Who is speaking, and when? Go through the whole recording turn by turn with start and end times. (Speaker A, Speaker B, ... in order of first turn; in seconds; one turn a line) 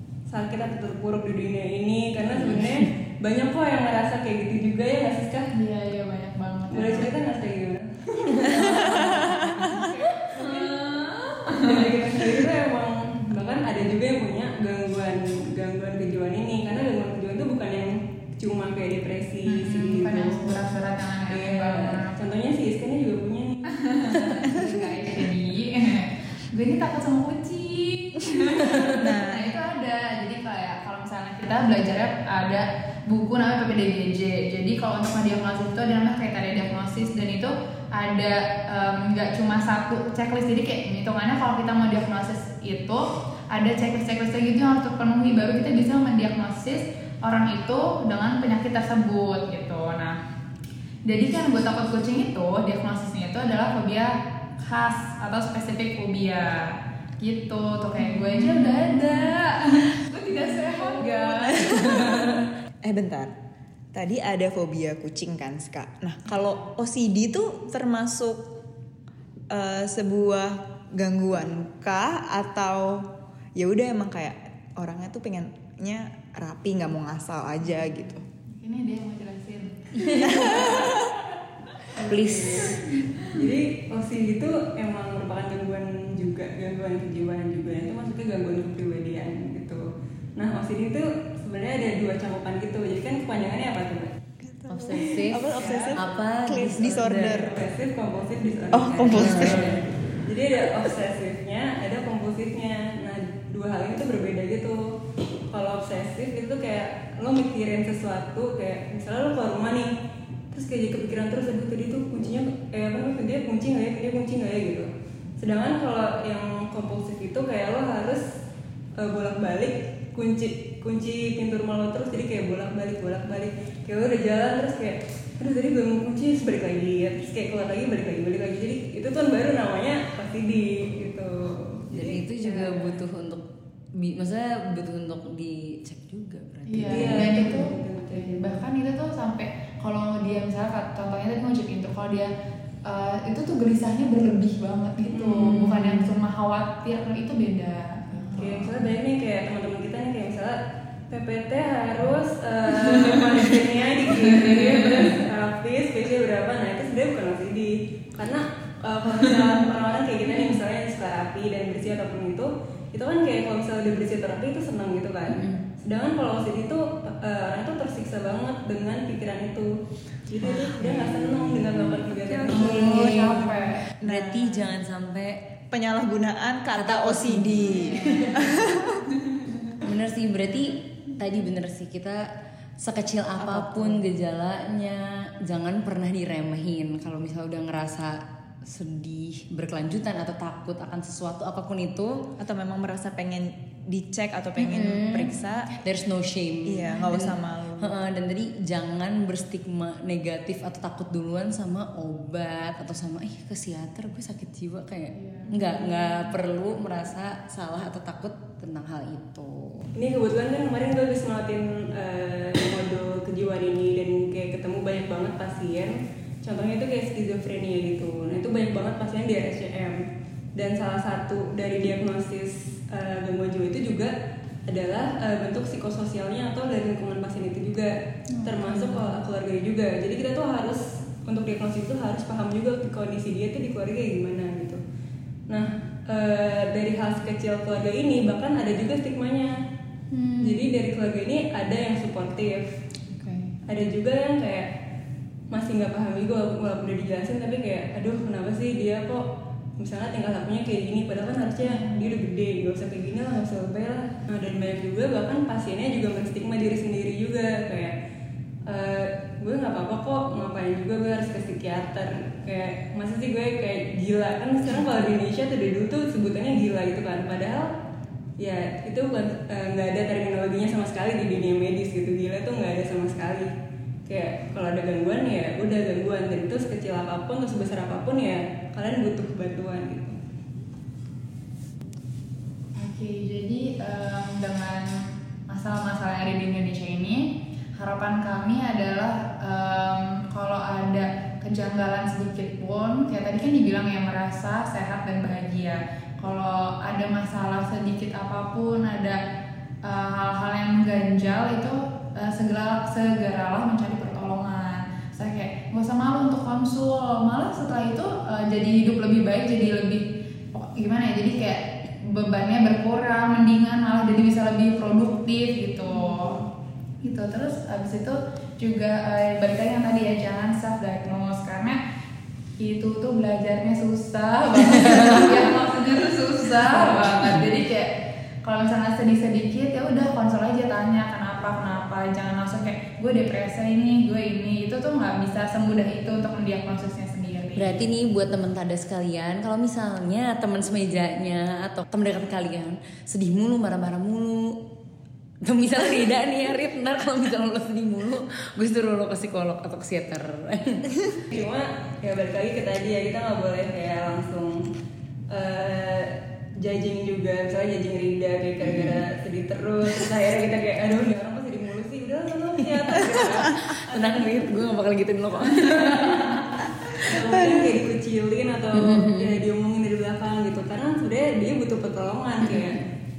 Speaker A: 0.3-5.5
Speaker B: 2.4-2.7
Speaker C: 5.5-7.1
Speaker A: 6.7-9.3
Speaker C: 8.3-12.2
Speaker D: 8.9-9.9
Speaker A: 10.3-10.8
Speaker A: 11.5-20.6
Speaker C: 19.4-22.1
Speaker A: 21.3-24.4
Speaker C: 23.7-50.1
Speaker D: 29.0-29.5
Speaker C: 51.0-62.4
Speaker B: 58.1-58.7
Speaker D: 61.6-62.1
Speaker D: 62.8-63.3
Speaker D: 63.9-68.4
Speaker D: 69.5-78.2
Speaker C: 78.5-80.9
Speaker B: 79.9-80.7
Speaker D: 80.3-80.9
Speaker A: 81.9-89.8
Speaker B: 82.0-82.6
Speaker C: 82.6-83.2
Speaker A: 90.3-94.1
Speaker D: 94.4-97.5
Speaker B: 94.7-97.5
Speaker A: 95.5-96.0
Speaker A: 97.2-104.8
Speaker D: 98.7-99.7
Speaker B: 99.1-99.7
Speaker A: 105.5-109.9
Speaker A: 110.5-118.2
Speaker A: 119.0-133.0
Speaker B: 131.9-133.4
Speaker B: 133.9-137.6
Speaker C: 136.7-142.3
Speaker A: 136.9-138.6
Speaker C: 142.8-148.8
Speaker A: 145.1-145.6
Speaker B: 145.6-146.1
Speaker A: 148.3-150.6
Speaker A: 151.1-169.7
Speaker B: 165.3-165.6
Speaker A: 170.3-173.6
Speaker B: 170.4-172.0
Speaker D: 172.4-172.8
Speaker C: 172.5-173.9
Speaker B: 172.5-175.3
Speaker D: 174.0-174.7
Speaker D: 175.7-178.9
Speaker B: 176.7-178.7
Speaker C: 177.6-178.6
Speaker C: 179.2-179.6
Speaker B: 179.8-182.2
Speaker B: 182.8-192.1
Speaker D: 183.4-184.0
Speaker D: 192.4-195.7
Speaker B: 194.6-209.9
Speaker D: 196.7-197.9
Speaker C: 205.1-206.3
Speaker A: 209.9-220.0
Speaker A: 220.6-224.1
Speaker A: 224.7-234.8
Speaker C: 228.3-229.2
Speaker A: 235.5-239.6
Speaker C: 240.1-240.6
Speaker A: 240.4-242.7
Speaker D: 243.1-243.6
Speaker A: 243.7-244.7
Speaker A: 245.5-249.2
Speaker A: 249.8-257.9
Speaker A: 258.7-267.7
Speaker A: 268.4-273.5
Speaker A: 274.1-280.1
Speaker C: 282.8-284.9
Speaker C: 285.5-287.2
Speaker C: 287.8-299.2
Speaker C: 299.8-316.4
Speaker A: 316.0-316.4
Speaker C: 317.0-321.8
Speaker C: 322.6-327.9
Speaker C: 328.4-337.9
Speaker B: 337.6-344.6
Speaker B: 345.4-350.9
Speaker A: 351.3-354.6
Speaker A: 355.3-364.6
Speaker B: 358.6-359.0
Speaker B: 362.6-367.1
Speaker A: 365.5-366.5
Speaker A: 367.0-372.8
Speaker D: 367.3-367.7
Speaker B: 368.7-369.4
Speaker B: 372.4-372.8